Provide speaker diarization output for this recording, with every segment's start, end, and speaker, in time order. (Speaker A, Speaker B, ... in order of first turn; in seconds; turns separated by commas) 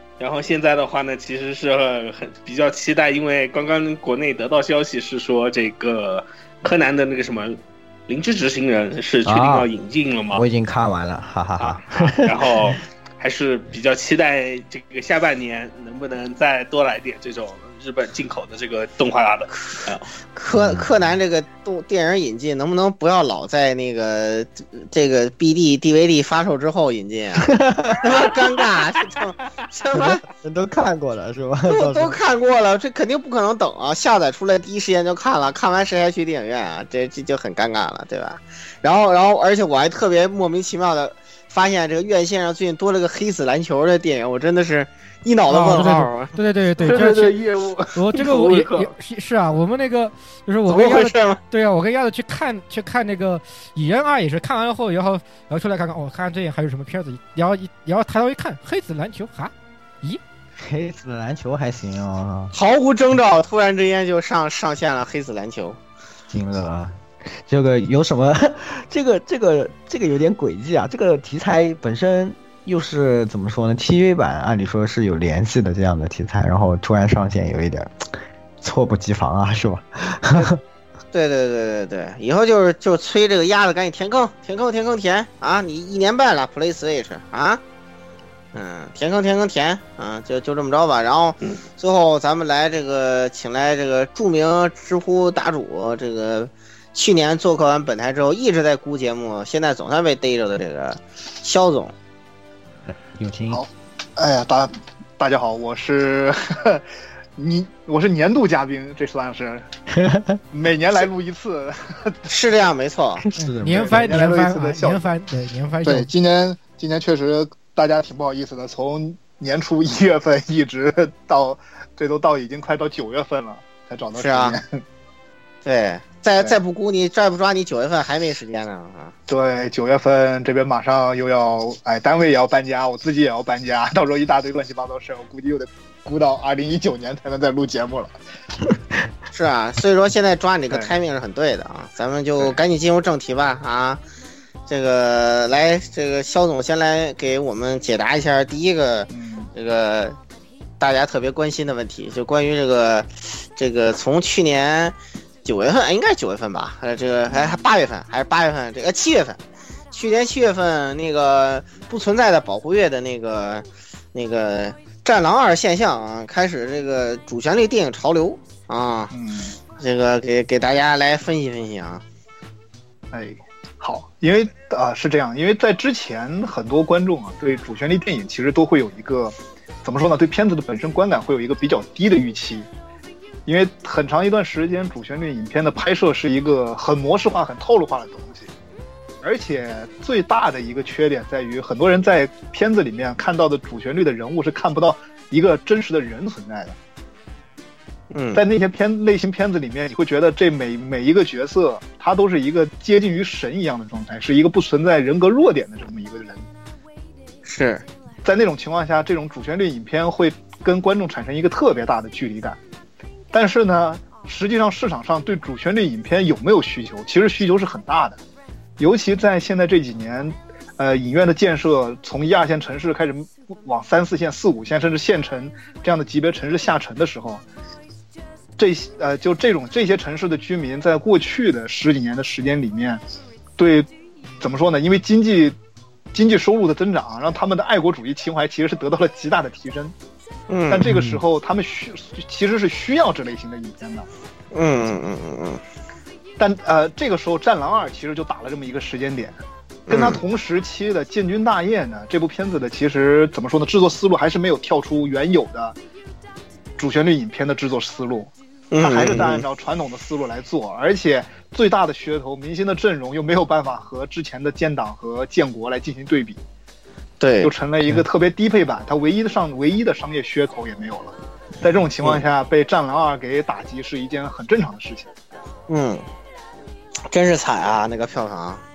Speaker A: 0.2-10.4, Speaker B: 9.2-9.7, Speaker B: 10.3-12.8, Speaker A: 11.6-20.1, Speaker C: 20.4-30.2, Speaker B: 20.5-20.9, Speaker B: 27.5-28.0, Speaker B: 29.9-32.2, Speaker C: 31.7-46.4, Speaker D: 45.5-47.4, Speaker A: 47.0-47.8, Speaker E: 47.0-47.5, Speaker D: 47.9-60.2, Speaker E: 48.2-48.5, Speaker A: 48.4-48.8, Speaker C: 50.7-51.4, Speaker B: 60.6-62.5, Speaker C: 62.5-65.8, Speaker B: 66.3-80.6, Speaker C: 81.1-87.6, Speaker C: 88.5-101.9, Speaker B: 102.9-103.6, Speaker E: 103.5-106.8, Speaker E: 107.4-109.7, Speaker B: 109.9-110.4, Speaker E: 110.5-112.2, Speaker C: 112.3-113.2, Speaker B: 113.2-114.2, Speaker D: 113.4-116.1, Speaker E: 113.7-115.1, Speaker E: 115.8-124.8, Speaker C: 124.2-124.6, Speaker C: 125.7-129.1, Speaker E: 129.3-138.1, Speaker C: 139.3-144.0, Speaker E: 140.7-141.0, Speaker C: 144.7-150.2, Speaker E: 149.1-149.5, Speaker C: 150.8-159.4, Speaker E: 157.3-157.6, Speaker C: 159.9-169.1, Speaker E: 169.1-169.6, Speaker C: 169.8-172.0, Speaker E: 173.1-182.7, Speaker E: 183.5-188.5, Speaker E: 189.2-196.8, Speaker C: 198.1-198.4, Speaker E: 198.3-206.4, Speaker C: 207.4-207.9, Speaker E: 208.2-212.6, Speaker E: 213.3-218.2, Speaker E: 218.8-227.4, Speaker E: 228.6-233.0, Speaker E: 233.6-233.9, Speaker E: 234.4-235.6, Speaker E: 236.1-239.9, Speaker C: 240.5-241.1, Speaker E: 240.7-244.1, Speaker B: 240.9-241.2, Speaker C: 244.5-245.6, Speaker E: 246.4-255.8, Speaker C: 249.9-250.2, Speaker E: 256.8-266.4, Speaker C: 258.7-259.5, Speaker C: 267.2-267.5, Speaker E: 267.4-275.1, Speaker C: 275.7-276.1, Speaker C: 277.1-278.6